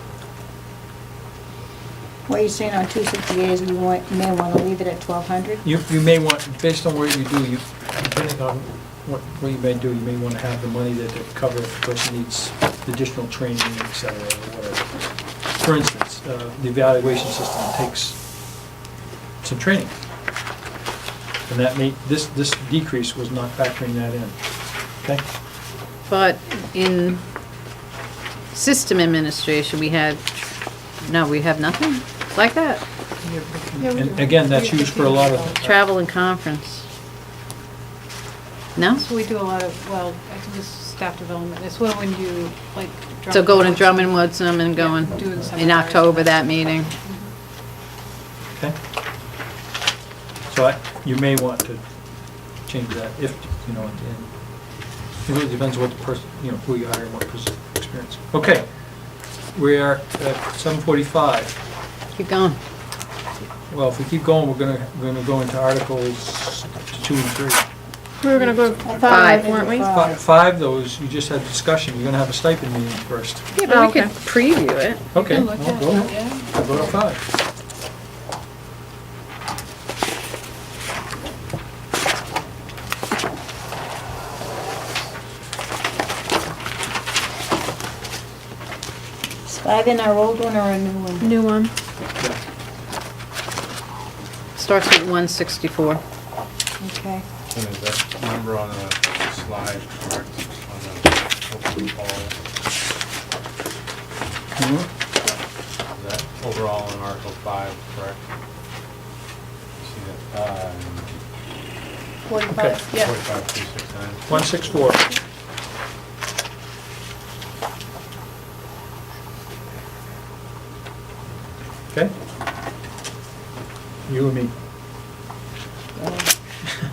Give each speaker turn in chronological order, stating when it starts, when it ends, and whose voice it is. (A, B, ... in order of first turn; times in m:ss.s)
0:02.3-0:05.6 A
0:05.6-0:18.2 B
0:19.4-0:20.0 B
0:21.5-0:25.2 B
0:26.1-0:27.2 C
0:28.5-0:32.8 C
0:33.2-0:35.7 D
0:33.8-0:35.7 B
0:34.1-0:34.4 E
0:35.6-0:36.9 C
0:38.8-0:39.1 C
0:38.8-0:47.3 D
0:43.3-0:46.9 C
0:50.5-0:51.8 B
0:52.4-1:01.6 B
1:02.1-1:02.6 C
1:03.7-1:07.7 B
1:08.2-1:10.1 E
1:08.4-1:08.7 D
1:08.8-1:10.2 A
1:09.1-1:09.5 C
1:09.7-1:13.5 B
1:13.5-1:15.1 C
1:13.6-1:14.1 E
1:15.1-1:17.2 B
1:15.2-1:16.8 D
1:29.4-1:31.4 A
1:31.2-1:31.7 E
1:34.6-1:36.0 C
1:36.8-1:37.2 A
1:37.5-1:42.3 F
1:44.6-1:44.9 B
1:45.9-1:48.2 F
1:49.8-1:51.2 F
1:52.3-1:53.2 D
1:52.5-1:52.8 B
1:52.9-1:54.5 F
1:54.3-1:55.1 B
2:04.1-2:04.5 B
2:06.0-2:06.3 A